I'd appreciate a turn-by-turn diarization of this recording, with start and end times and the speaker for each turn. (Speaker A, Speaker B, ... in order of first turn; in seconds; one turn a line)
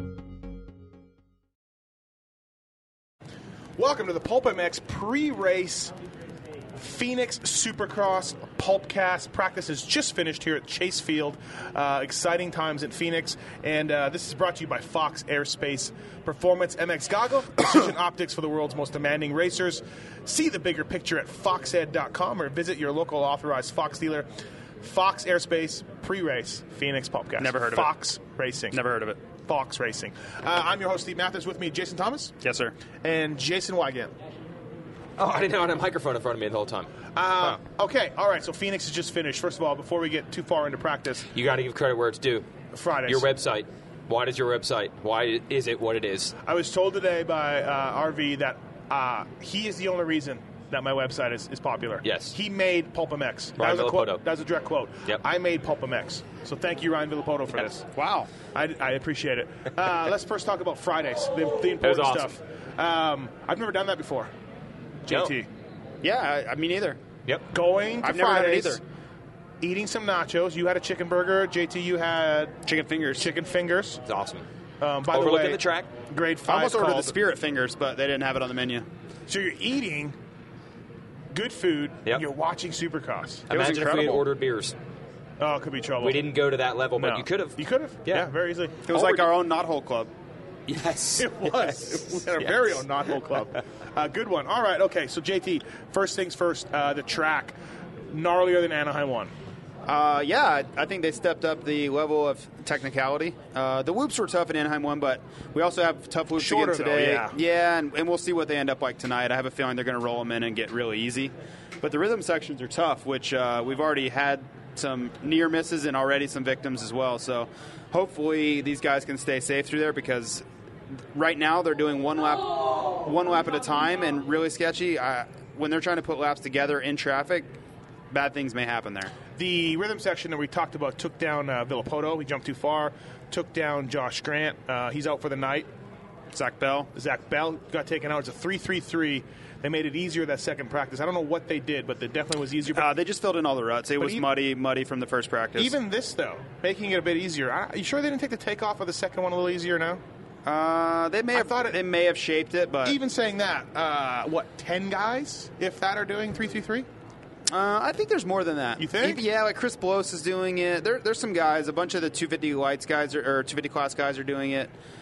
Speaker A: 3.8-5.9
Speaker A: 6.8-24.3
Speaker A: 24.8-28.8
Speaker B: 27.4-28.0
Speaker B: 28.7-29.2
Speaker A: 29.4-32.4
Speaker B: 32.4-32.8
Speaker A: 33.0-34.1
Speaker C: 35.2-36.9
Speaker A: 37.1-41.3
Speaker C: 41.3-42.5
Speaker A: 42.7-43.3
Speaker C: 43.1-46.4
Speaker A: 46.5-57.9
Speaker C: 52.0-52.4
Speaker C: 53.6-54.2
Speaker B: 57.9-58.3
Speaker A: 58.5-64.3
Speaker C: 61.8-62.4
Speaker A: 65.1-65.5
Speaker C: 65.1-65.3
Speaker B: 66.0-67.0
Speaker A: 67.5-68.8
Speaker B: 68.0-68.8
Speaker A: 69.6-72.6
Speaker B: 72.7-73.3
Speaker A: 73.2-74.0
Speaker C: 74.1-74.5
Speaker A: 74.8-77.2
Speaker C: 75.1-75.9
Speaker B: 76.5-78.9
Speaker A: 79.3-80.2
Speaker A: 81.3-83.5
Speaker B: 83.5-84.3
Speaker C: 83.5-84.8
Speaker A: 85.4-86.2
Speaker C: 86.0-88.3
Speaker A: 87.0-88.9
Speaker B: 88.9-90.1
Speaker C: 88.9-89.2
Speaker C: 90.7-92.8
Speaker A: 91.2-97.5
Speaker A: 98.1-99.3
Speaker B: 99.9-120.4
Speaker A: 106.4-107.3
Speaker B: 121.1-127.6
Speaker B: 128.1-129.1
Speaker A: 129.4-135.7
Speaker B: 136.3-136.9
Speaker A: 136.9-142.9
Speaker B: 142.7-145.8
Speaker A: 144.0-144.3
Speaker A: 145.6-150.0
Speaker B: 150.5-153.0
Speaker A: 151.3-151.8
Speaker A: 152.8-156.9
Speaker B: 157.5-164.7
Speaker A: 158.8-159.2